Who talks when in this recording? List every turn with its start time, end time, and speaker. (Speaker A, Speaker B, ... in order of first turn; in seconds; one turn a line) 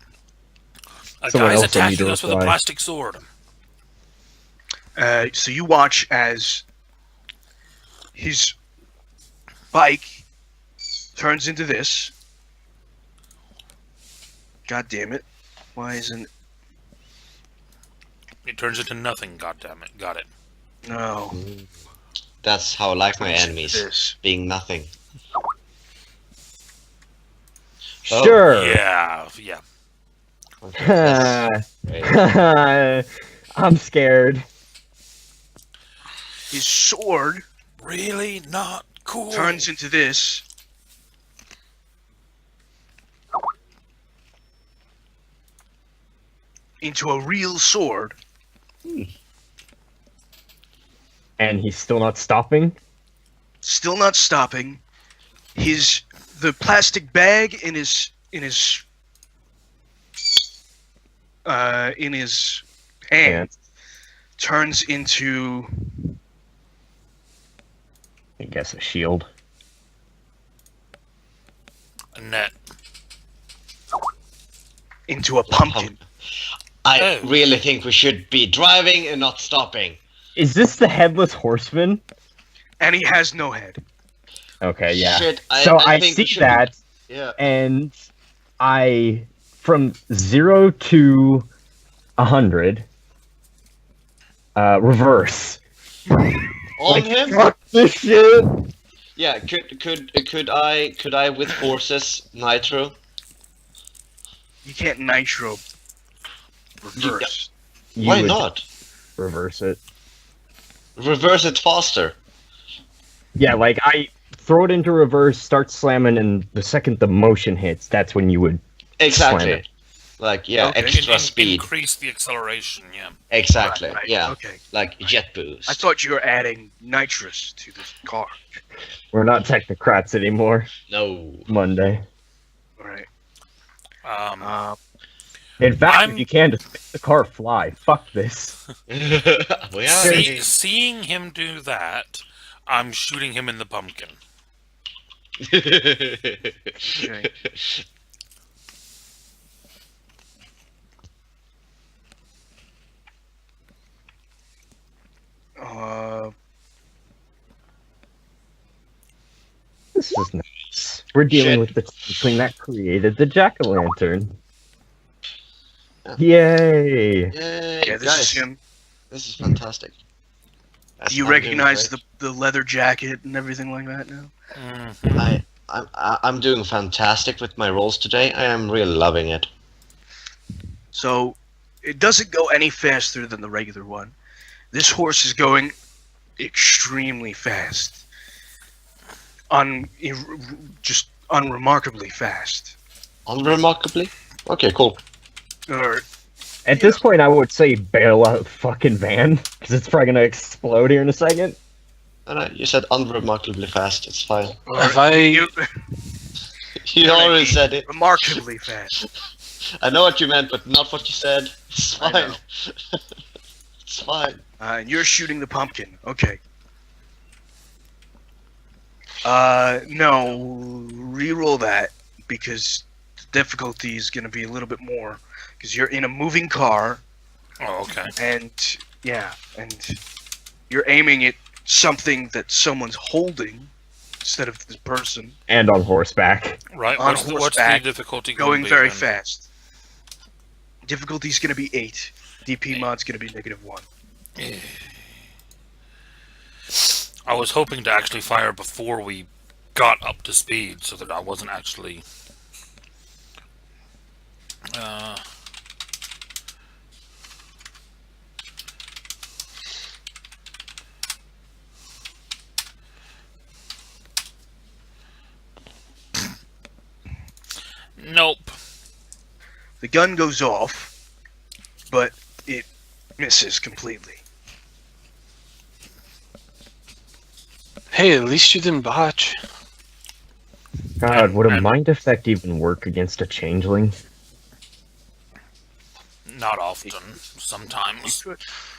Speaker A: 1.2-3.2
Speaker B: 1.3-2.5
Speaker C: 5.0-6.6
Speaker C: 8.1-8.6
Speaker C: 9.7-10.2
Speaker C: 11.2-12.1
Speaker C: 14.7-15.2
Speaker C: 15.8-16.3
Speaker A: 18.4-20.3
Speaker C: 20.8-21.4
Speaker D: 21.3-21.7
Speaker D: 22.4-24.9
Speaker C: 23.1-24.2
Speaker D: 28.1-28.4
Speaker B: 28.1-28.8
Speaker A: 28.5-29.6
Speaker D: 30.6-32.2
Speaker B: 30.8-34.4
Speaker C: 36.5-37.4
Speaker A: 37.8-39.7
Speaker C: 39.3-40.4
Speaker C: 46.8-48.1
Speaker B: 51.4-52.7
Speaker C: 53.6-54.8
Speaker C: 55.5-58.8
Speaker C: 61.4-63.5
Speaker B: 63.2-63.5
Speaker C: 64.4-65.7
Speaker B: 68.4-69.3
Speaker A: 72.1-72.5
Speaker C: 75.1-76.0
Speaker D: 75.5-76.0
Speaker D: 76.8-80.0
Speaker A: 77.0-77.4
Speaker B: 80.3-82.0
Speaker C: 82.8-83.8
Speaker B: 84.6-86.8
Speaker D: 84.9-87.4
Speaker B: 87.4-87.9
Speaker B: 88.6-91.5
Speaker B: 92.2-92.8
Speaker B: 94.5-95.6
Speaker D: 96.8-97.4
Speaker B: 96.9-98.5
Speaker D: 99.2-103.0
Speaker C: 104.6-105.6
Speaker C: 106.8-107.5
Speaker D: 107.0-107.3
Speaker B: 108.0-108.4
Speaker D: 108.0-108.7
Speaker B: 109.2-109.8
Speaker D: 111.0-112.2
Speaker B: 113.3-119.6
Speaker D: 119.0-119.7
Speaker D: 120.2-121.7
Speaker C: 120.6-121.0
Speaker A: 120.6-123.2
Speaker D: 123.3-125.8
Speaker C: 123.6-124.6
Speaker C: 125.7-128.4
Speaker B: 129.1-130.7
Speaker D: 130.9-131.5
Speaker B: 131.5-132.0
Speaker C: 132.8-133.1
Speaker A: 134.0-134.5
Speaker C: 134.4-134.8
Speaker B: 135.6-138.6
Speaker A: 135.8-136.2
Speaker D: 138.9-140.5
Speaker A: 139.8-144.2
Speaker B: 140.0-140.3
Speaker D: 145.4-147.8
Speaker C: 146.8-147.3
Speaker C: 155.6-156.3
Speaker B: 159.9-164.3
Speaker D: 161.3-161.7
Speaker B: 166.2-167.3
Speaker D: 167.3-168.4
Speaker C: 167.8-168.6
Speaker D: 169.1-170.0
Speaker D: 171.0-172.0
Speaker C: 171.1-174.3
Speaker A: 174.5-175.4
Speaker D: 175.1-179.5
Speaker C: 180.9-184.1
Speaker C: 184.7-185.7
Speaker C: 186.4-188.0
Speaker C: 189.5-192.8
Speaker D: 193.3-195.0
Speaker C: 195.7-196.0
Speaker B: 196.7-201.6
Speaker C: 196.7-197.0
Speaker D: 202.2-204.6
Speaker C: 204.7-205.9
Speaker E: 204.7-205.5
Speaker D: 206.8-208.4
Speaker C: 207.0-208.9
Speaker D: 209.8-212.9
Speaker C: 211.9-212.4
Speaker D: 213.9-214.4
Speaker C: 214.6-216.4
Speaker C: 219.2-227.0
Speaker A: 227.6-228.1
Speaker C: 228.2-230.0
Speaker C: 230.7-233.7
Speaker C: 234.2-235.3
Speaker B: 235.5-236.6
Speaker A: 236.7-239.1
Speaker C: 236.9-239.5
Speaker C: 240.8-243.9
Speaker A: 244.4-244.8
Speaker A: 247.2-252.0
Speaker A: 254.7-255.2
Speaker A: 268.0-268.6
Speaker C: 269.8-270.9
Speaker C: 271.9-272.7
Speaker C: 273.2-274.2
Speaker E: 277.9-279.4
Speaker B: 281.0-283.9
Speaker A: 281.0-281.7
Speaker A: 286.2-288.2
Speaker C: 288.0-288.4